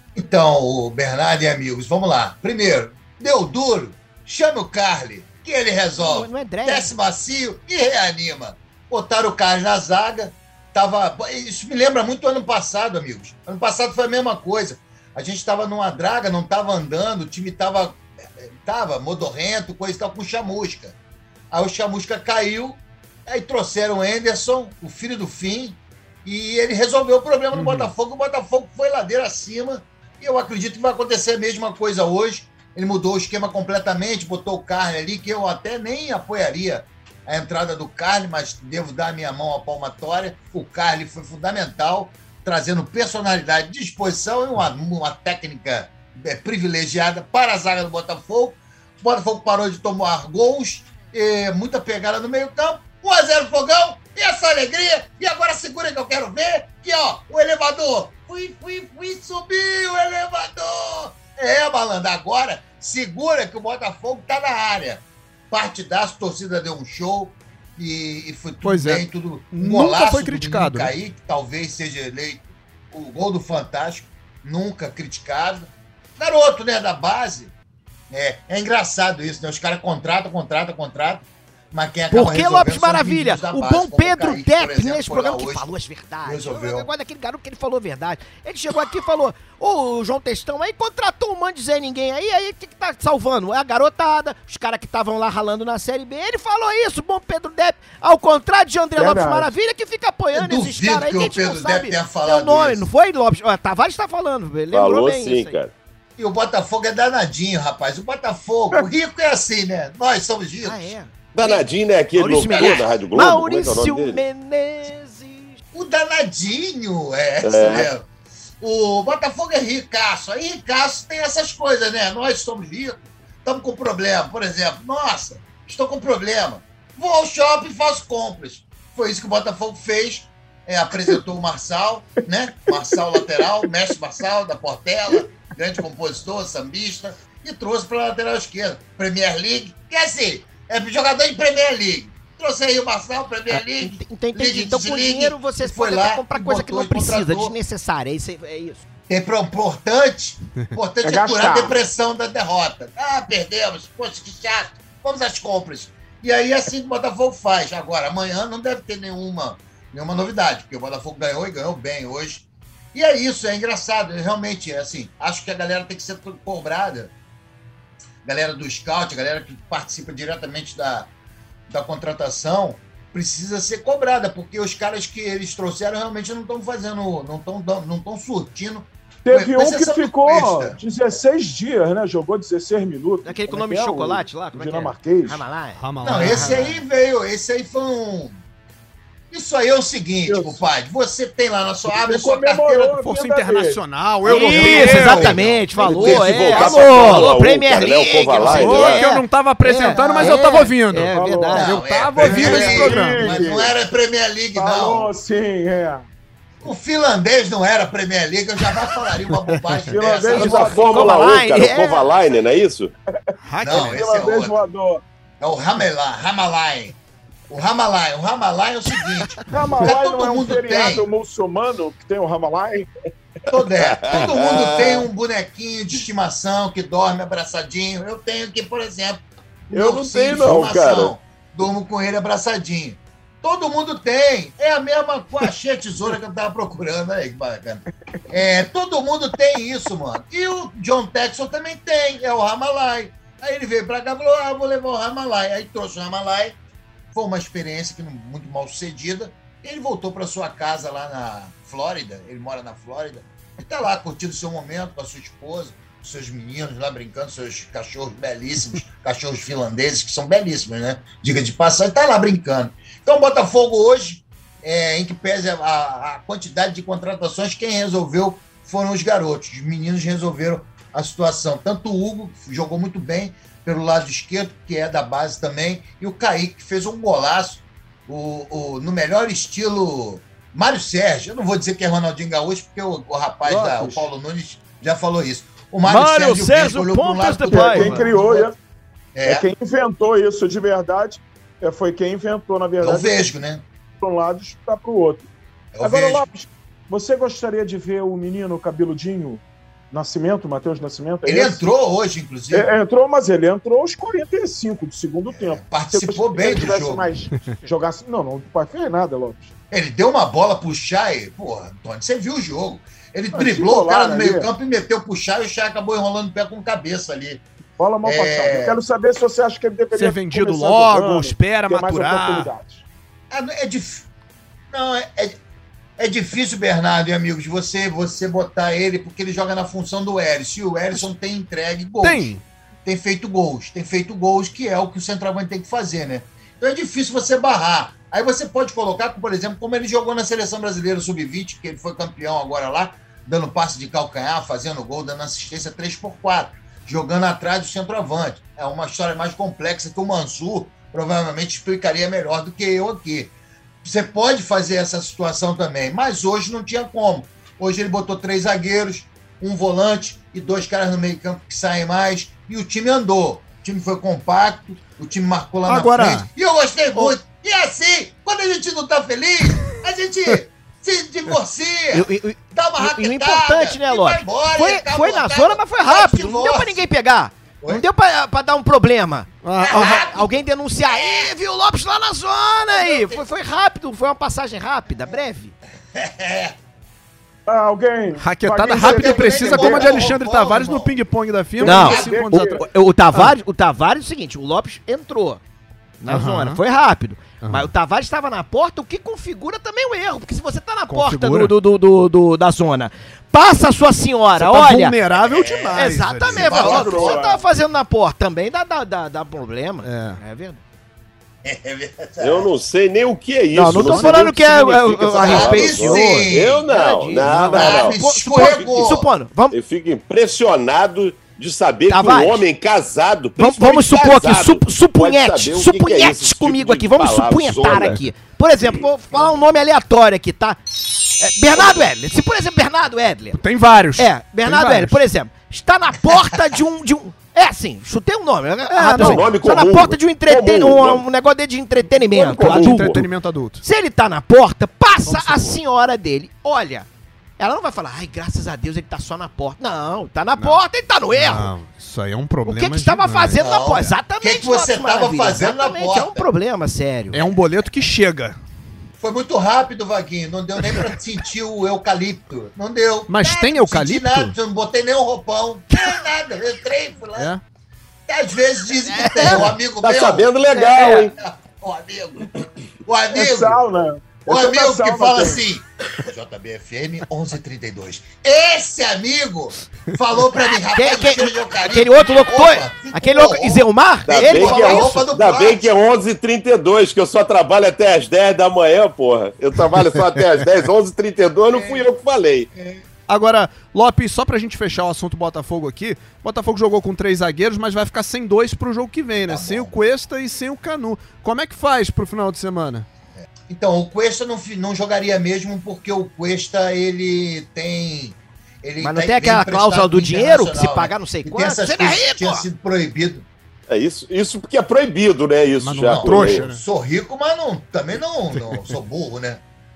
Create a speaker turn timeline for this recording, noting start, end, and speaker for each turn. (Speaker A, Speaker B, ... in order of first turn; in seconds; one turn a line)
Speaker A: 0.1-21.0
Speaker B: 6.0-6.9
Speaker A: 21.5-77.5
Speaker C: 27.5-27.9
Speaker C: 68.6-70.9
Speaker A: 78.1-85.7
Speaker B: 82.1-105.6
Speaker A: 86.2-86.9
Speaker D: 99.0-99.5
Speaker A: 100.3-102.9
Speaker E: 104.7-105.7
Speaker A: 106.2-110.9
Speaker B: 110.6-111.6
Speaker E: 111.3-114.2
Speaker B: 112.1-115.6
Speaker A: 112.3-113.0
Speaker A: 115.7-118.1
Speaker E: 117.4-117.9
Speaker A: 118.6-147.6
Speaker B: 143.6-148.8
Speaker A: 149.1-167.1
Speaker D: 151.0-151.8
Speaker A: 168.2-171.1
Speaker A: 171.7-180.8
Speaker D: 179.2-185.4
Speaker B: 183.2-186.8
Speaker C: 185.8-186.7
Speaker A: 186.0-188.4
Speaker A: 189.3-192.9
Speaker D: 190.2-190.6
Speaker D: 191.9-195.0
Speaker C: 193.0-197.4
Speaker B: 194.2-201.8
Speaker A: 194.9-195.9
Speaker E: 195.8-199.0
Speaker D: 196.1-196.6
Speaker C: 198.4-203.5
Speaker A: 199.9-200.4
Speaker D: 201.1-203.8
Speaker A: 201.5-205.1
Speaker D: 204.5-206.1
Speaker A: 206.6-210.8
Speaker D: 209.9-211.1
Speaker E: 210.3-212.9
Speaker B: 210.3-212.1
Speaker D: 213.3-215.0
Speaker C: 213.4-214.0
Speaker A: 213.6-214.7
Speaker A: 215.4-217.0
Speaker A: 217.5-221.1
Speaker D: 219.5-222.9
Speaker A: 223.5-246.6
Speaker E: 223.8-225.1
Speaker E: 229.7-231.1
Speaker A: 247.1-288.5
Speaker D: 283.4-284.1
Speaker B: 285.9-288.1
Speaker D: 287.5-288.5
Speaker A: 289.1-289.5
Speaker D: 289.2-293.2
Speaker A: 292.8-293.6
Speaker D: 294.0-295.3
Speaker A: 295.7-296.3
Speaker D: 295.8-301.6
Speaker A: 301.2-302.8
Speaker D: 302.5-309.5
Speaker A: 305.3-307.1
Speaker A: 309.7-317.4
Speaker D: 313.3-314.5
Speaker D: 317.8-322.8
Speaker A: 318.0-318.8
Speaker C: 319.9-322.5
Speaker A: 323.3-324.1
Speaker A: 324.7-325.4
Speaker A: 326.0-332.3
Speaker C: 332.0-332.4
Speaker A: 332.9-376.9
Speaker C: 365.7-366.3
Speaker B: 371.9-385.5
Speaker C: 379.4-380.1
Speaker A: 379.6-380.3
Speaker A: 380.9-381.3
Speaker A: 382.7-383.2
Speaker A: 385.9-386.5
Speaker D: 387.5-390.2
Speaker C: 388.2-392.6
Speaker A: 388.7-391.0
Speaker D: 391.6-392.6
Speaker B: 391.6-395.4
Speaker B: 396.0-405.0
Speaker C: 396.1-396.6
Speaker C: 397.4-397.7
Speaker C: 400.9-401.6
Speaker C: 404.4-406.6
Speaker A: 405.1-407.3
Speaker B: 405.7-410.6
Speaker D: 406.5-407.4
Speaker E: 406.6-407.2
Speaker C: 409.8-410.2
Speaker A: 411.4-412.5
Speaker E: 412.2-418.8
Speaker B: 413.5-419.6
Speaker C: 413.7-414.5
Speaker A: 415.2-416.6
Speaker C: 415.3-415.8
Speaker C: 417.2-417.6
Speaker A: 417.5-419.1
Speaker E: 419.5-428.0
Speaker B: 421.9-422.4
Speaker B: 423.4-433.4
Speaker C: 427.7-428.0
Speaker E: 431.6-431.9
Speaker C: 433.3-435.0
Speaker B: 434.0-443.0
Speaker C: 438.7-439.3
Speaker E: 439.0-441.0
Speaker E: 441.9-443.1
Speaker C: 442.4-443.6
Speaker B: 443.6-446.9
Speaker C: 445.0-445.6
Speaker B: 447.4-451.5
Speaker C: 450.4-453.4
Speaker B: 452.4-457.2
Speaker A: 453.4-456.3
Speaker C: 457.1-458.4
Speaker A: 459.0-467.3
Speaker C: 463.1-464.3
Speaker A: 468.1-473.6
Speaker B: 468.9-469.4
Speaker E: 469.8-471.1
Speaker B: 470.5-471.1
Speaker D: 473.1-475.4
Speaker A: 474.3-485.7
Speaker B: 480.7-485.0
Speaker E: 484.1-492.5
Speaker A: 491.5-491.9
Speaker A: 492.6-492.8
Speaker C: 493.1-502.9
Speaker A: 499.3-499.8
Speaker A: 503.5-513.3
Speaker B: 508.8-512.5
Speaker E: 513.7-516.5
Speaker C: 515.6-516.6
Speaker A: 515.8-519.4